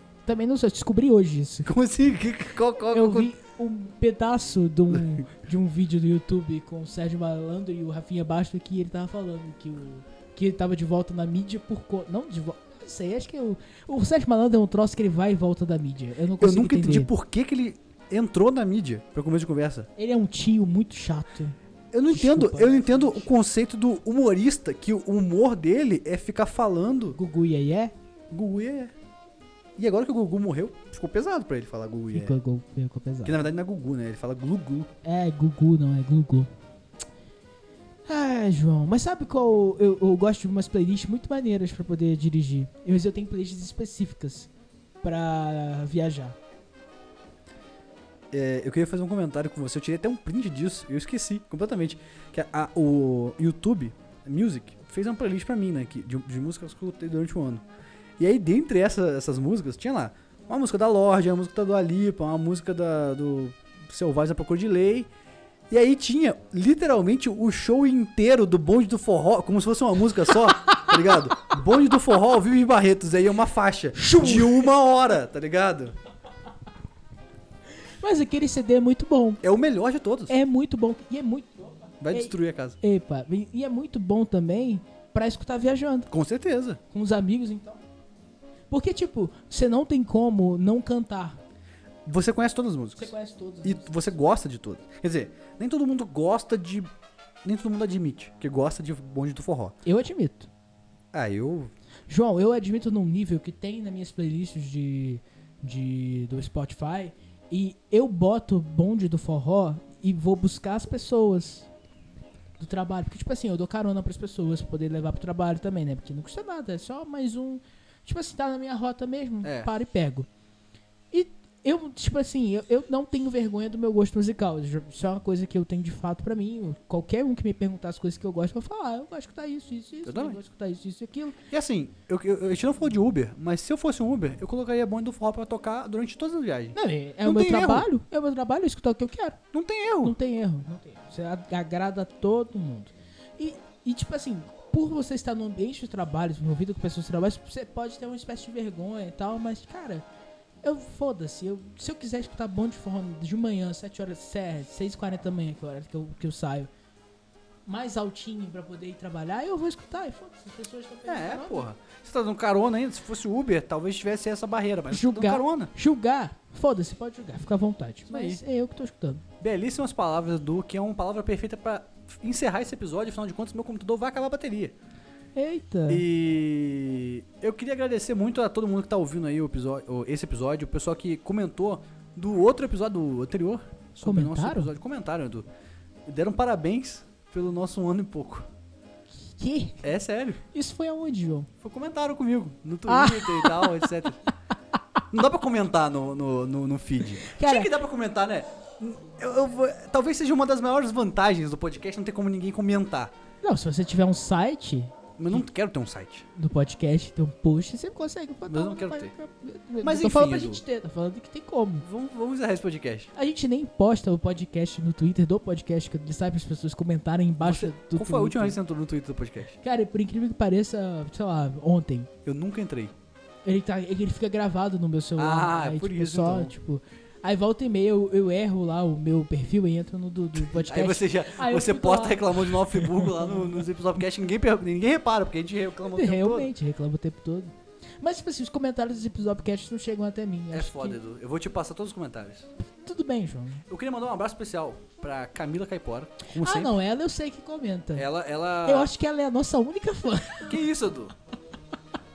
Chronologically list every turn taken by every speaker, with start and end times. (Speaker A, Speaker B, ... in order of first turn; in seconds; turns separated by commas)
Speaker A: 0.3-1.7, Speaker B: 1.6-3.3, Speaker A: 2.9-17.1, Speaker B: 4.9-5.2, Speaker B: 16.4-19.9, Speaker A: 20.0-21.6, Speaker B: 21.9-27.2, Speaker A: 22.1-23.3, Speaker A: 27.1-27.9, Speaker B: 28.3-28.9, Speaker B: 29.8-32.4, Speaker A: 32.1-33.5, Speaker B: 33.2-34.9, Speaker A: 35.0-36.5, Speaker A: 38.1-44.5, Speaker A: 45.0-46.4, Speaker B: 48.3-57.6, Speaker B: 58.2-65.1, Speaker B: 65.7-76.0, Speaker A: 70.6-71.1, Speaker A: 74.0-74.7, Speaker A: 78.0-79.4, Speaker B: 79.4-80.3, Speaker A: 80.3-86.1, Speaker B: 82.0-82.8, Speaker B: 86.1-86.8, Speaker A: 86.9-87.8, Speaker A: 88.7-91.4, Speaker B: 92.0-93.1, Speaker A: 93.0-94.1, Speaker B: 93.6-96.9, Speaker B: 97.4-99.8, Speaker A: 99.8-100.5, Speaker B: 101.1-101.7, Speaker A: 102.1-111.7, Speaker A: 112.6-120.3, Speaker B: 119.4-119.7, Speaker A: 121.1-131.4, Speaker B: 130.1-130.4, Speaker B: 131.5-137.9, Speaker A: 136.8-139.4, Speaker B: 139.5-140.2, Speaker A: 140.0-150.1, Speaker A: 150.6-156.7, Speaker A: 157.7-161.7, Speaker B: 161.1-165.7, Speaker A: 164.9-169.2, Speaker B: 168.1-168.4, Speaker B: 169.4-174.8, Speaker A: 175.3-176.0, Speaker B: 175.9-185.5, Speaker A: 184.0-184.7, Speaker B: 186.1-188.5, Speaker A: 189.4-189.9, Speaker B: 189.8-190.4, Speaker A: 190.5-191.5, Speaker B: 191.6-194.2, Speaker A: 192.9-193.9, Speaker B: 195.1-203.1, Speaker A: 197.2-197.7, Speaker A: 203.4-205.4, Speaker B: 205.2-206.3, Speaker A: 206.4-211.9, Speaker B: 208.5-209.1, Speaker B: 209.8-210.6, Speaker B: 211.8-213.1, Speaker A: 213.2-218.6, Speaker B: 217.4-219.6, Speaker A: 219.6-222.1, Speaker B: 222.2-222.9, Speaker A: 223.4-233.5, Speaker B: 225.2-226.5, Speaker B: 230.4-236.5, Speaker A: 235.9-241.0, Speaker B: 240.5-242.5, Speaker A: 242.8-243.6, Speaker B: 243.7-246.7, Speaker A: 246.3-248.1, Speaker B: 247.9-248.9, Speaker A: 248.7-250.6, Speaker B: 250.4-251.1